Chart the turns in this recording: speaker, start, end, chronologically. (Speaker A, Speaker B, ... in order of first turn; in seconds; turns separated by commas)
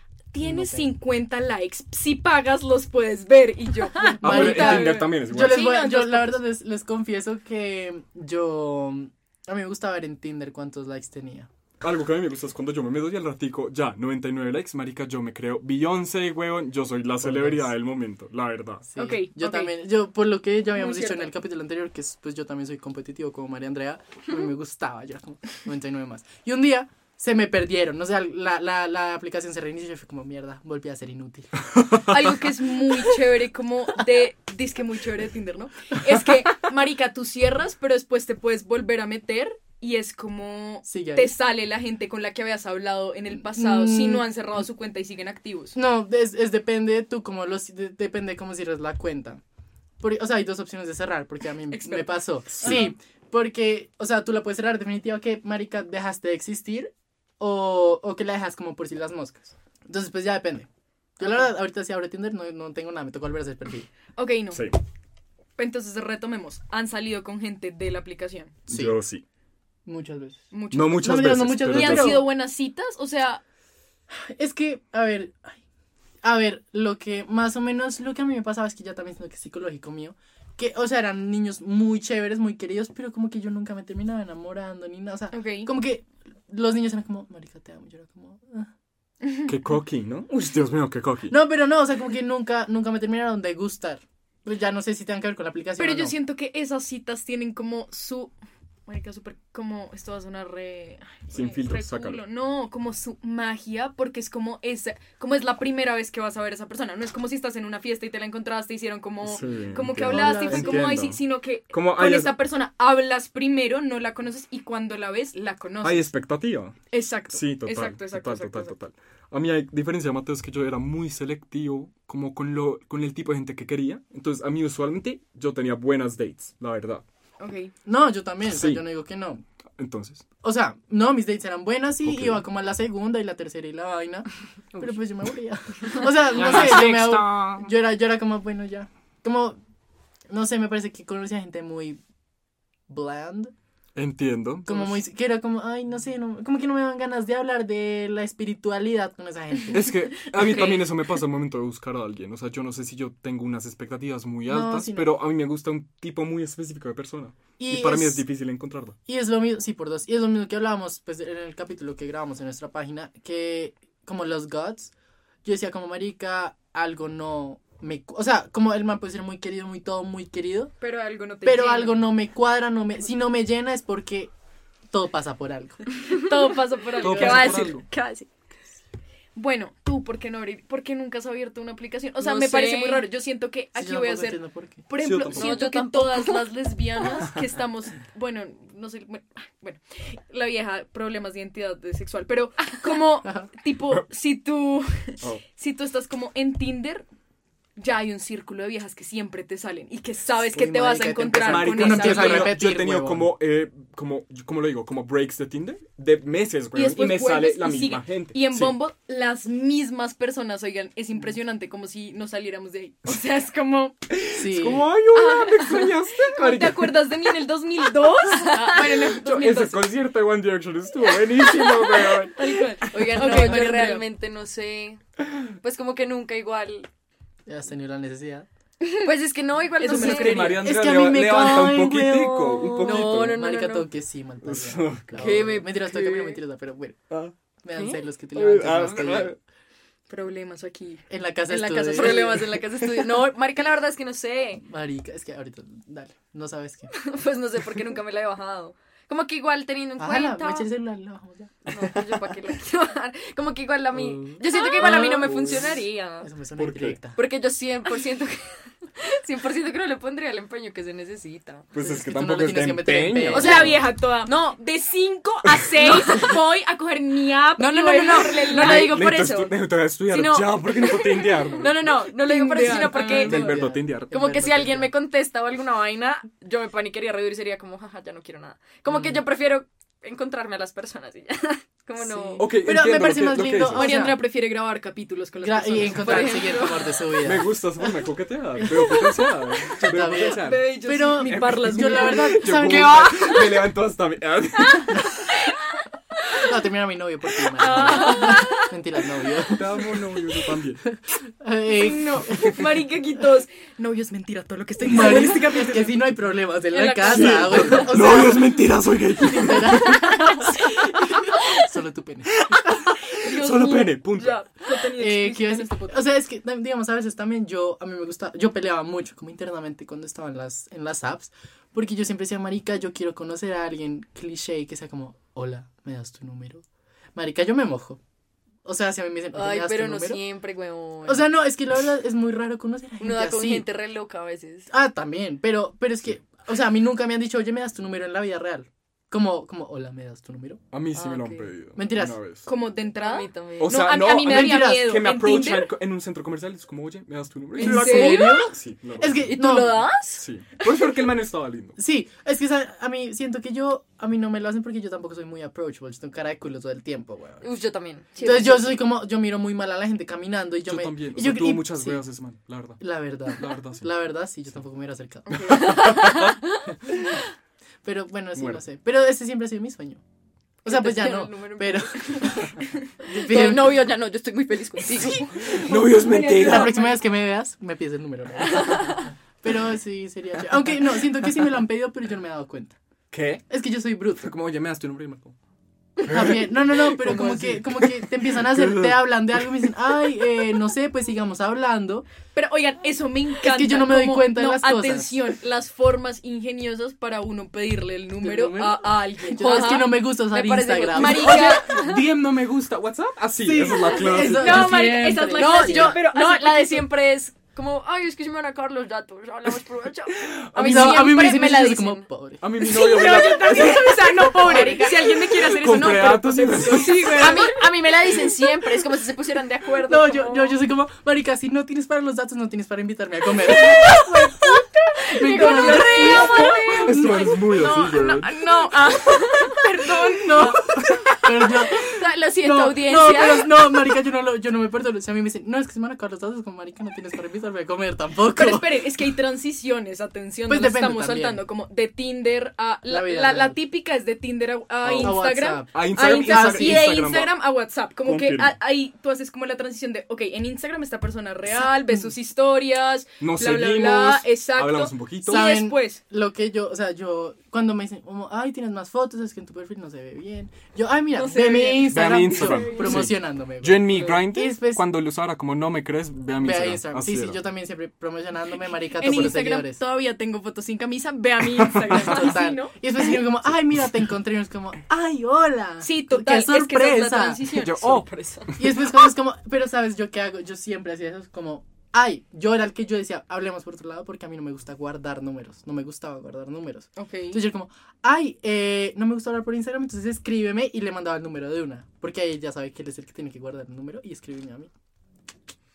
Speaker A: 0.3-6.4, Speaker B: 0.4-0.9, Speaker B: 4.0-11.5, Speaker C: 4.2-5.7, Speaker C: 11.8-18.9, Speaker B: 17.2-17.7, Speaker B: 18.9-31.5, Speaker A: 19.0-19.8, Speaker A: 20.8-21.3, Speaker A: 32.1-45.8, Speaker B: 40.8-41.3, Speaker B: 43.3-44.2, Speaker B: 45.7-49.4, Speaker B: 50.0-63.9, Speaker A: 51.7-52.8, Speaker C: 52.6-52.9, Speaker A: 64.2-64.6, Speaker C: 64.5-64.8, Speaker A: 65.6-68.5, Speaker B: 68.7-69.0, Speaker C: 68.7-69.2, Speaker B: 69.8-70.5, Speaker A: 70.5-73.4, Speaker C: 70.7-72.3, Speaker B: 71.0-72.3, Speaker B: 74.1-75.5, Speaker B: 76.2-88.7, Speaker A: 85.3-85.7, Speaker A: 89.2-89.5, Speaker C: 89.5-91.3, Speaker B: 91.3-96.1, Speaker A: 95.8-98.3, Speaker A: 98.9-116.1, Speaker C: 101.3-102.2, Speaker C: 109.2-112.3, Speaker B: 110.0-110.9, Speaker C: 115.8-116.8, Speaker A: 116.9-118.8, Speaker C: 117.3-127.0, Speaker A: 127.4-127.7, Speaker B: 127.8-129.4, Speaker C: 128.5-128.8, Speaker C: 129.8-130.2, Speaker B: 130.4-139.6, Speaker C: 132.0-132.4, Speaker C: 136.3-137.7, Speaker D: 136.3-137.3, Speaker B: 140.3-142.0, Speaker B: 142.9-143.5, Speaker C: 143.9-145.0, Speaker B: 144.7-149.9, Speaker C: 149.7-158.9, Speaker D: 150.4-150.9, Speaker B: 154.5-155.1, Speaker B: 157.6-158.2, Speaker B: 159.1-164.9, Speaker B: 165.4-170.7, Speaker A: 170.8-172.0, Speaker B: 171.4-174.3, Speaker B: 174.9-175.8, Speaker A: 176.1-177.7, Speaker D: 177.0-178.3, Speaker C: 177.0-177.8, Speaker A: 179.3-197.1, Speaker D: 182.2-183.0, Speaker B: 183.7-184.8, Speaker C: 185.0-185.6, Speaker D: 185.3-186.5, Speaker B: 193.2-193.5, Speaker A: 197.8-202.6, Speaker B: 200.5-203.3, Speaker C: 201.4-208.8, Speaker A: 206.7-213.9, Speaker C: 214.1-217.0, Speaker B: 214.3-214.8, Speaker A: 215.1-219.9, Speaker D: 218.3-218.7, Speaker C: 218.9-223.1, Speaker A: 222.3-224.0, Speaker D: 222.8-225.0, Speaker D: 225.6-226.9, Speaker B: 227.4-228.5, Speaker D: 229.0-230.6, Speaker A: 229.8-230.7, Speaker C: 229.9-233.4, Speaker B: 230.6-237.0, Speaker D: 231.3-233.9, Speaker C: 234.4-235.6, Speaker D: 235.1-236.4, Speaker B: 237.6-239.3, Speaker C: 238.3-239.4, Speaker A: 240.1-242.6, Speaker B: 241.1-242.4, Speaker D: 241.9-244.6, Speaker B: 244.6-246.9, Speaker D: 246.9-250.7, Speaker B: 250.0-251.9, Speaker D: 251.7-256.3, Speaker C: 253.9-255.8, Speaker A: 254.5-255.0, Speaker B: 254.8-255.7, Speaker B: 256.2-257.2, Speaker C: 256.6-257.0, Speaker D: 257.1-261.7, Speaker C: 261.7-263.8, Speaker B: 261.8-263.8, Speaker A: 263.3-269.0, Speaker D: 263.4-263.7, Speaker D: 264.2-264.6, Speaker C: 265.5-266.0, Speaker D: 265.8-266.3, Speaker D: 267.6-269.6, Speaker C: 268.5-272.0, Speaker D: 270.1-273.6, Speaker A: 272.1-273.5, Speaker B: 272.7-274.9, Speaker C: 273.1-274.2, Speaker D: 274.1-282.5, Speaker B: 278.9-279.2, Speaker B: 282.0-284.2, Speaker C: 282.4-284.0, Speaker A: 283.7-286.6, Speaker B: 285.4-288.0, Speaker D: 286.0-287.0, Speaker C: 287.2-290.7, Speaker B: 288.6-293.1, Speaker A: 290.0-292.5, Speaker C: 291.2-295.3, Speaker D: 292.5-293.7, Speaker B: 296.3-299.9, Speaker A: 297.6-298.6, Speaker D: 297.7-298.7, Speaker C: 299.4-300.8, Speaker B: 300.9-302.6, Speaker A: 301.7-305.9, Speaker B: 304.8-308.5, Speaker A: 306.7-308.2, Speaker C: 307.0-311.2, Speaker B: 309.2-312.4, Speaker C: 312.4-314.4, Speaker A: 313.1-316.1, Speaker B: 314.9-326.6, Speaker B: 327.1-328.0, Speaker B: 328.6-330.2, Speaker D: 329.3-331.3, Speaker B: 331.0-333.6, Speaker D: 333.0-334.7, Speaker B: 334.7-340.6, Speaker C: 340.7-342.5, Speaker D: 340.9-341.5, Speaker B: 341.8-342.2, Speaker A: 342.4-345.7, Speaker D: 343.0-343.8, Speaker C: 343.6-349.3, Speaker B: 344.2-344.9, Speaker A: 347.6-348.5, Speaker B: 347.6-349.9, Speaker D: 349.3-350.2, Speaker C: 350.2-351.8, Speaker B: 351.8-357.4, Speaker D: 357.4-358.8, Speaker A: 358.2-358.5, Speaker B: 358.2-362.0, Speaker C: 360.6-363.9, Speaker B: 362.8-365.6, Speaker C: 365.4-366.4, Speaker D: 365.5-366.7, Speaker B: 367.8-370.0, Speaker C: 368.3-368.6, Speaker B: 370.6-373.9, Speaker D: 370.6-375.6, Speaker C: 375.1-376.7, Speaker A: 375.3-377.0, Speaker B: 376.3-382.8, Speaker D: 378.4-379.1, Speaker C: 383.1-383.4, Speaker B: 383.5-384.3, Speaker C: 384.2-385.3, Speaker C: 386.0-389.0, Speaker B: 386.0-392.1, Speaker A: 392.3-399.9, Speaker B: 393.4-395.2, Speaker B: 398.2-401.6, Speaker D: 399.4-402.0, Speaker A: 400.9-401.6, Speaker C: 401.2-404.9, Speaker B: 403.4-406.0, Speaker A: 404.1-406.9, Speaker D: 405.3-412.0, Speaker C: 410.2-410.9, Speaker B: 410.6-412.4, Speaker C: 412.4-417.3, Speaker A: 412.6-417.6, Speaker D: 412.9-415.8, Speaker B: 414.4-414.9, Speaker D: 416.7-420.6, Speaker B: 419.8-424.4, Speaker D: 423.4-427.3, Speaker A: 423.7-430.6, Speaker B: 425.1-427.2, Speaker C: 426.7-428.3, Speaker D: 428.6-429.6, Speaker B: 430.0-438.8, Speaker D: 431.1-433.6, Speaker A: 438.3-456.0, Speaker B: 440.5-441.4, Speaker B: 442.9-443.6, Speaker C: 444.8-445.2, Speaker B: 444.9-446.9, Speaker C: 445.7-447.3, Speaker C: 448.0-448.5, Speaker B: 451.6-452.1, Speaker C: 453.2-455.5, Speaker B: 455.3-464.8, Speaker A: 461.1-463.1, Speaker C: 461.8-467.4, Speaker B: 466.4-469.8, Speaker A: 469.0-472.7, Speaker B: 471.9-477.4, Speaker A: 475.8-478.1, Speaker C: 477.5-478.8, Speaker B: 478.6-494.7, Speaker A: 486.9-487.4